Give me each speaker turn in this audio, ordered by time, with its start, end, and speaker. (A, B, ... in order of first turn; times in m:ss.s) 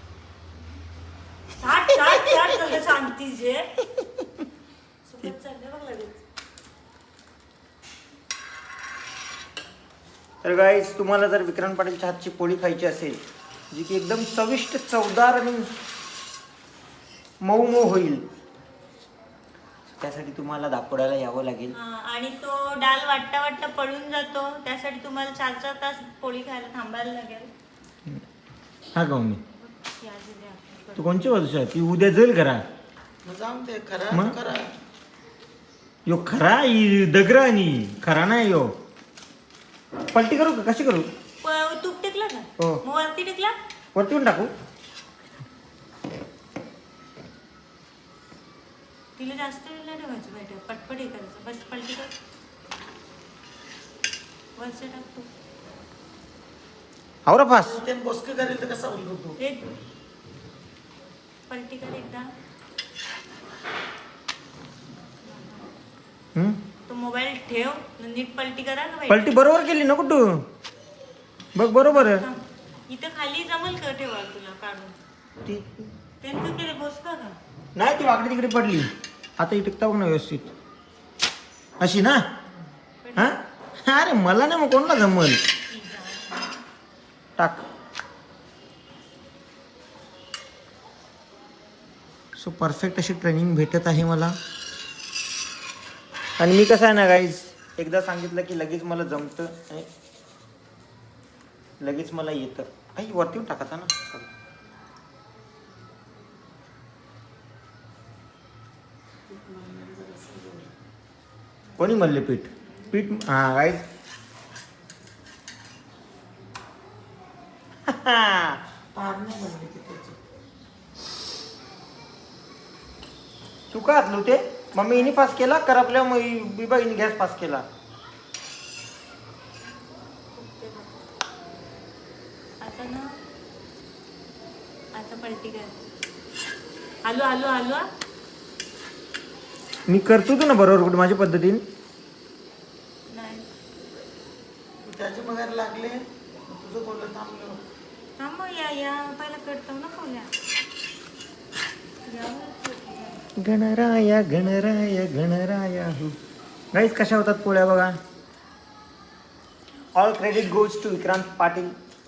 0:01.6-0:03.7 A
0:05.0-0:06.2 A
0:10.4-0:13.2 B
0:13.7-0:15.7 B
0:17.4-0:18.2 B
0:20.0-0:21.8 B
0:21.7-0:27.5 A
0:29.0-0:29.4 B
0:29.6-0:31.3 A
0:31.0-0:32.6 B
0:33.2-0:34.7 C
0:36.1-0:38.7 B
0:40.1-0:41.1 B
0:41.4-0:43.5 A
0:43.9-0:44.5 B
0:49.2-0:52.1 A
0:54.6-0:55.3 A
0:57.3-0:57.8 B
0:57.6-0:59.4 C
0:59.4-0:59.7 A
1:01.5-1:02.3 A
1:06.9-1:09.5 A
1:09.1-1:10.4 B
1:11.5-1:12.2 B
1:11.8-1:14.9 A
1:15.4-1:15.9 B
1:16.2-1:17.4 A
1:17.8-1:20.5 B
1:21.8-1:22.3 B
1:23.0-1:23.4 A
1:23.2-1:25.4 B
1:25.7-1:26.6 A
1:27.4-1:27.6 B
1:32.4-1:34.4 B
1:36.4-1:39.9 B
1:41.8-1:44.3 B
1:49.3-1:50.7 C
1:51.8-1:53.8 B
1:57.9-1:58.6 B
1:58.9-2:00.2 C
2:03.7-2:07.6 B
2:10.3-2:11.0 A
2:12.6-2:13.1 A
2:14.9-2:15.7 A
2:17.0-2:17.9 A
2:19.9-2:21.6 B
2:23.1-2:23.5 A
2:24.8-2:27.6 C
2:28.2-2:30.3 A
2:32.0-2:33.2 A
2:33.4-2:36.2 B
2:36.7-2:38.0 B
2:39.9-2:41.7 B